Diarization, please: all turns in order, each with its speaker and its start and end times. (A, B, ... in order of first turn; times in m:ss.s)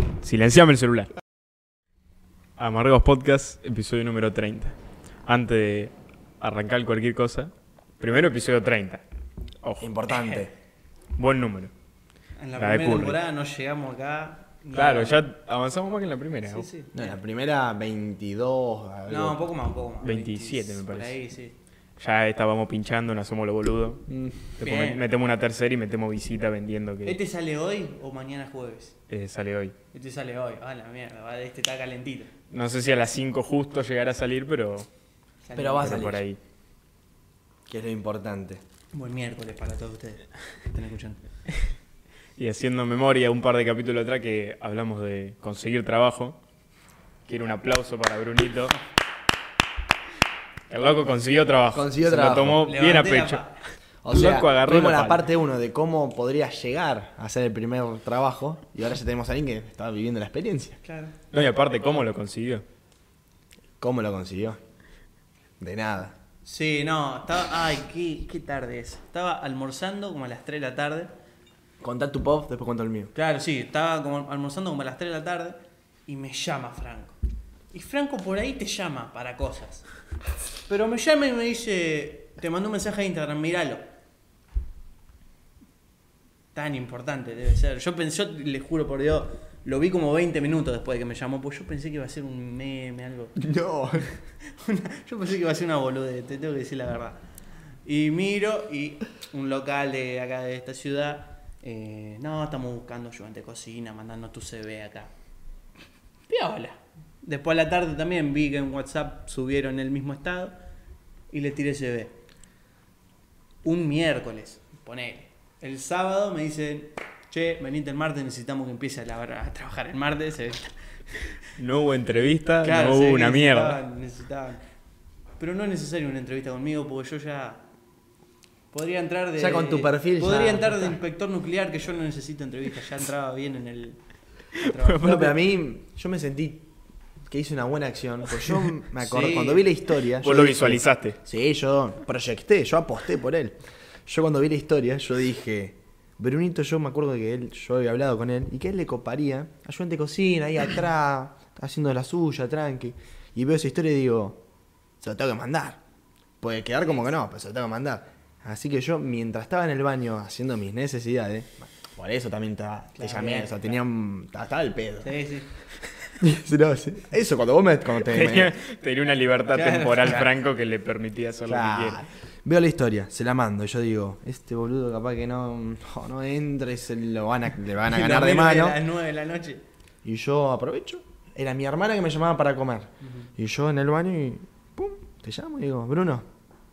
0:00.2-0:01.1 A
0:02.6-0:09.0 A
0:09.6-0:09.9 A
0:09.8-0:10.5 B
0:10.1-0:10.4 C
0:11.2-0:11.7 A
0:12.4-0:15.2 C
0:12.6-0:13.2 A
0:14.7-0:16.7 A
0:16.5-0:17.2 C
0:16.9-0:19.4 B
0:19.1-0:21.6 C
0:20.0-0:21.2 A
0:22.0-0:24.1 A
0:24.1-0:24.4 B
0:24.6-0:27.2 A
0:24.6-0:25.0 C
0:27.0-0:29.0 C
0:29.1-0:29.7 A
0:29.9-0:32.3 C
0:32.5-0:34.9 A
0:35.4-0:36.1 C
0:35.5-0:36.2 B
0:35.8-0:36.4 A
0:37.7-0:38.6 B
0:38.9-0:41.2 C
0:42.4-0:46.4 A
0:47.3-0:48.8 A
0:50.7-0:53.4 A
0:51.7-0:52.6 B
0:52.6-0:53.6 C
0:54.0-1:00.8 B
0:54.1-0:55.3 A
1:00.8-1:01.2 C
1:01.3-1:02.6 A
1:03.8-1:04.6 B
1:05.6-1:06.2 B
1:06.4-1:11.1 C
1:11.8-1:13.1 B
1:13.1-1:17.2 C
1:17.7-1:19.8 C
1:20.7-1:23.8 C
1:26.5-1:33.3 C
1:33.4-1:34.1 B
1:34.5-1:37.2 C
1:37.8-1:45.1 C
1:46.3-1:50.6 C
1:51.3-1:52.2 C
1:53.6-2:00.8 C
2:01.6-2:03.8 A
2:02.6-2:04.6 C
2:05.4-2:07.6 C
2:08.7-2:14.0 C
2:09.4-2:10.8 B
2:14.5-2:15.3 A
2:14.5-2:15.4 C
2:15.0-2:16.7 B
2:17.3-2:34.4 B
2:19.0-2:19.7 C
2:20.2-2:21.2 A
2:35.0-2:35.8 B
2:36.4-2:45.2 B
2:43.0-2:43.8 C
2:45.0-2:45.5 C
2:46.2-2:48.6 B
2:48.0-2:52.0 A
2:49.5-2:50.3 C
2:51.5-2:58.8 B
2:57.8-2:59.6 C
3:00.0-3:06.3 B